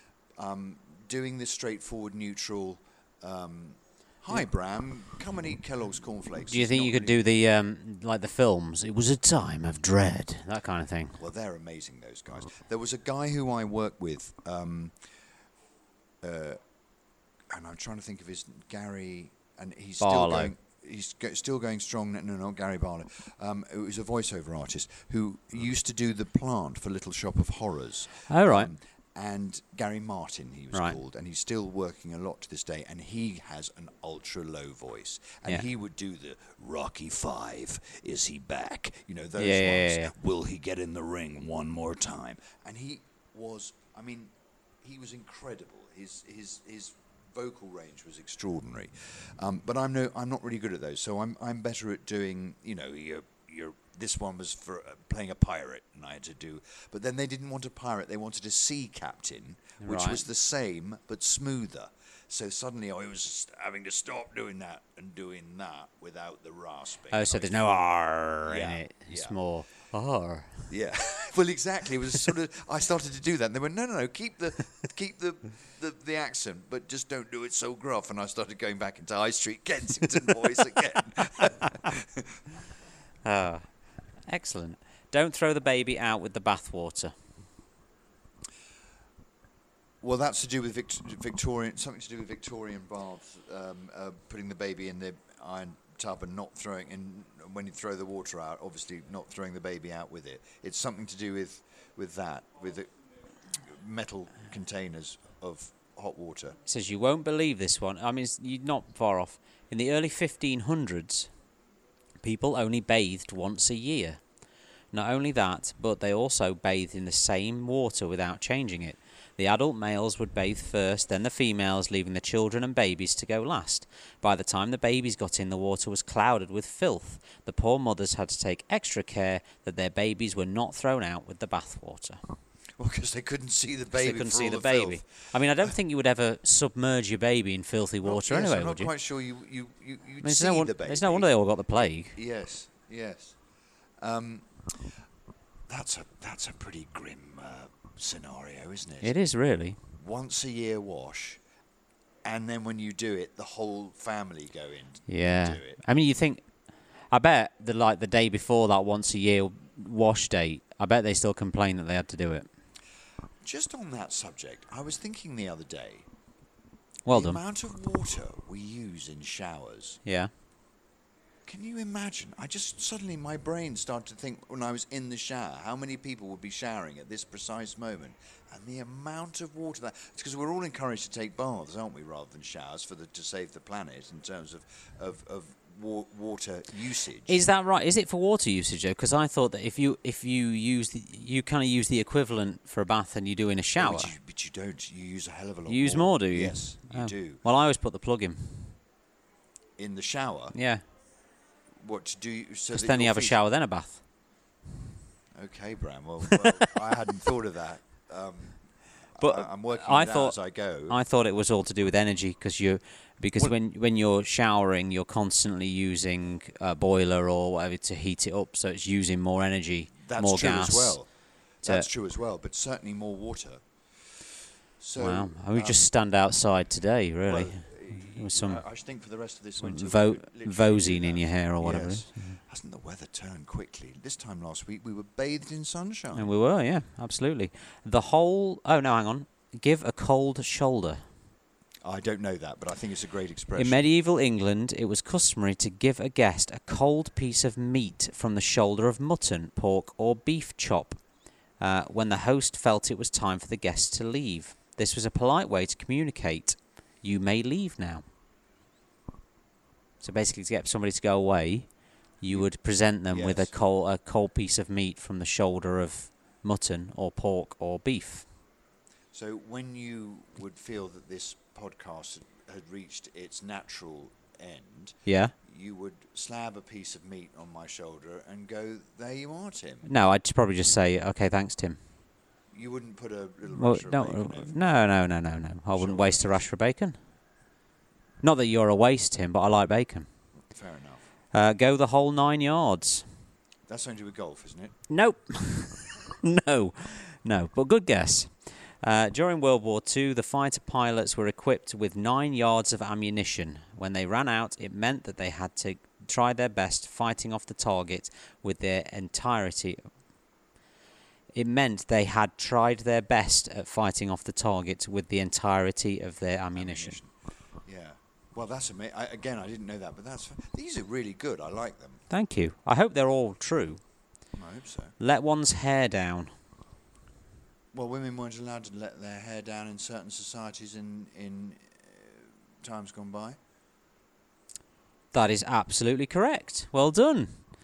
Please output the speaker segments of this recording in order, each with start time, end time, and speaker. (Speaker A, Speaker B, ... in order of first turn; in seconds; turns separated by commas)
Speaker A: 0.4-7.2, Speaker B: 6.5-11.2, Speaker A: 11.2-14.9, Speaker A: 16.2-16.6, Speaker A: 17.5-67.9, Speaker B: 20.0-20.5, Speaker B: 28.3-28.7, Speaker B: 30.7-31.0, Speaker B: 39.4-40.1, Speaker B: 59.8-60.2, Speaker B: 67.1-70.7, Speaker A: 68.5-69.4, Speaker A: 70.7-82.2, Speaker B: 83.2-83.7, Speaker B: 84.2-87.1, Speaker A: 90.0-102.9, Speaker A: 103.6-106.6, Speaker B: 106.7-111.3, Speaker B: 112.2-114.2, Speaker B: 114.9-132.2, Speaker A: 132.8-135.1, Speaker B: 133.9-138.9, Speaker A: 138.0-141.3, Speaker B: 140.2-142.2, Speaker A: 142.1-143.4, Speaker A: 144.0-144.9, Speaker A: 145.7-149.1, Speaker B: 149.0-149.8, Speaker A: 149.9-151.4, Speaker A: 152.2-155.8, Speaker B: 155.1-156.4, Speaker B: 157.1-162.5, Speaker A: 163.4-166.1, Speaker B: 167.0-167.4, Speaker A: 167.1-170.0, Speaker B: 170.0-170.3, Speaker A: 171.4-187.4, Speaker B: 187.3-194.1, Speaker A: 193.8-197.4, Speaker B: 195.7-198.8, Speaker A: 199.8-200.5, Speaker B: 200.5-200.8, Speaker A: 201.8-203.4, Speaker B: 202.7-204.0, Speaker A: 205.3-208.6, Speaker A: 209.1-211.0, Speaker B: 209.2-221.0, Speaker A: 220.0-225.8, Speaker B: 225.0-228.6, Speaker A: 227.2-236.3, Speaker B: 229.6-232.4, Speaker B: 236.1-241.0, Speaker A: 241.8-243.8, Speaker B: 243.6-251.0, Speaker B: 251.6-258.0, Speaker B: 260.0-268.3, Speaker A: 263.1-263.5, Speaker A: 269.1-279.9, Speaker B: 275.1-275.3, Speaker B: 279.8-281.8, Speaker A: 282.5-284.7, Speaker B: 283.5-287.0, Speaker A: 285.7-286.4, Speaker B: 288.2-290.1, Speaker A: 290.5-291.0, Speaker B: 291.3-293.1, Speaker A: 293.7-294.8, Speaker B: 294.9-309.8, Speaker B: 311.3-317.0, Speaker A: 316.6-317.1, Speaker A: 317.6-322.0, Speaker B: 322.1-323.8, Speaker A: 324.3-324.9, Speaker B: 325.0-326.3, Speaker A: 327.7-333.4, Speaker B: 335.1-337.4